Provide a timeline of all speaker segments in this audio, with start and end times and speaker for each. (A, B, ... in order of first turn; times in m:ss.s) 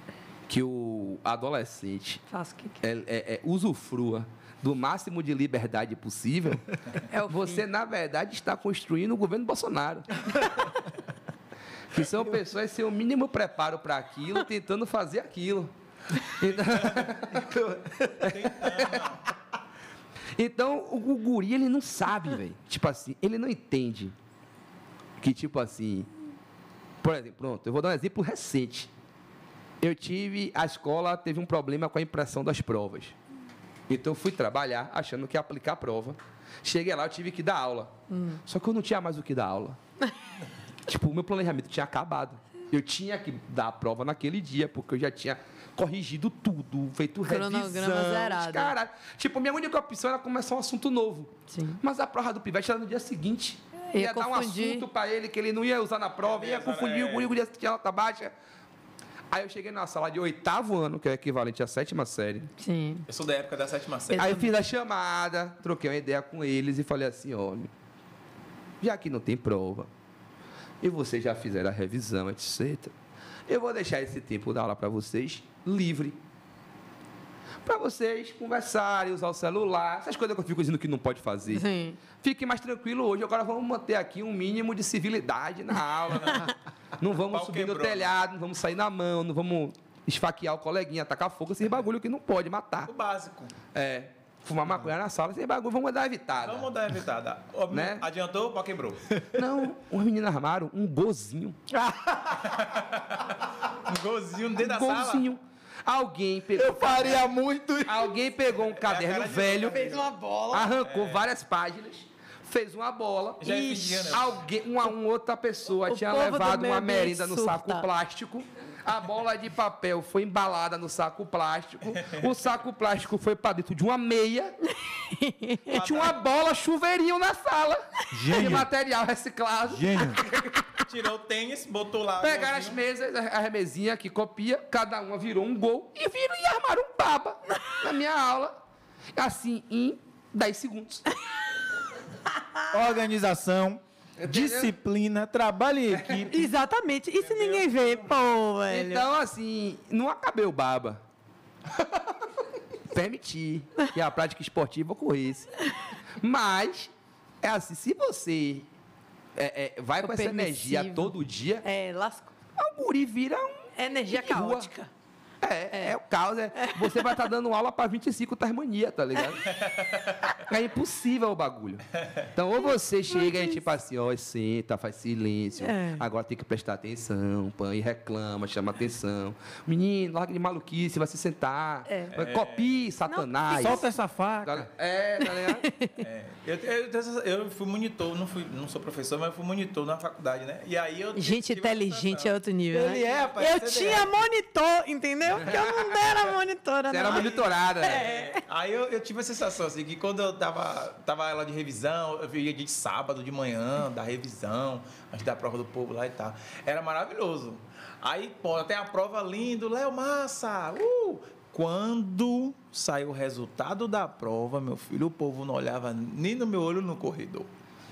0:00.5-0:02.2 A
0:02.3-0:02.8 B
0:02.8-0:06.7 A
0:07.0-0:07.6 B
0:07.3-0:10.5 A
0:11.9-0:17.5 A
0:16.7-0:17.0 C
0:17.3-0:18.3 D
0:18.2-0:19.0 A
0:18.2-0:19.2 C
0:20.4-0:24.1 A
0:25.2-0:26.1 A
0:27.0-0:28.9 A
0:29.8-0:33.1 A
0:33.9-0:37.9 A
0:38.1-0:38.4 B
0:38.4-0:39.8 A
0:40.9-0:58.3 A
0:47.2-0:48.7 B
0:51.5-0:51.8 B
0:53.9-0:54.8 B
0:56.2-0:57.3 C
0:59.3-1:02.5 A
1:02.6-1:03.1 B
1:03.1-1:04.3 C
1:04.1-1:04.5 B
1:04.1-1:07.7 A
1:08.8-1:09.9 A
1:10.8-1:12.9 A
1:13.5-1:16.2 A
1:17.6-1:32.9 A
1:21.5-1:22.0 B
1:27.3-1:28.1 C
1:32.8-1:33.5 C
1:33.7-1:36.7 A
1:36.4-1:39.0 C
1:37.7-1:38.0 A
1:39.3-1:41.6 A
1:41.7-1:42.7 D
1:42.5-1:45.2 C
1:44.6-1:47.3 A
1:46.5-1:48.1 D
1:47.8-1:49.8 A
1:48.8-1:50.1 C
1:49.7-1:50.7 B
1:50.5-2:04.6 A
1:50.8-1:51.2 C
1:53.4-1:54.4 C
1:55.9-1:57.8 B
2:01.9-2:02.3 C
2:04.6-2:05.7 B
2:05.7-2:06.2 C
2:05.7-2:10.8 A
2:08.1-2:08.7 D
2:09.7-2:10.2 D
2:10.9-2:12.8 C
2:12.2-2:18.5 A
2:19.1-2:21.1 A
2:22.7-2:26.4 D
2:24.2-2:24.7 A
2:26.3-2:29.1 B
2:27.2-2:28.1 C
2:28.7-2:31.0 A
2:32.9-2:35.5 A
2:36.2-2:36.9 A
2:37.4-2:38.7 A
2:39.4-2:41.6 A
2:40.0-2:42.3 B
2:42.6-2:44.7 A
2:43.8-2:44.9 B
2:45.4-2:49.6 A
2:46.5-2:47.2 B
2:49.5-2:50.0 C
2:50.4-3:03.8 A
2:53.1-2:53.6 B
2:55.6-2:56.0 B
3:01.9-3:02.1 B
3:02.1-3:02.7 C
3:03.1-3:03.8 B
3:03.5-3:04.7 D
3:04.4-3:05.7 A
3:05.2-3:06.0 B
3:06.0-3:12.3 C
3:11.1-3:18.4 B
3:12.7-3:14.1 D
3:15.4-3:16.0 A
3:16.9-3:18.0 A
3:17.0-3:37.5 C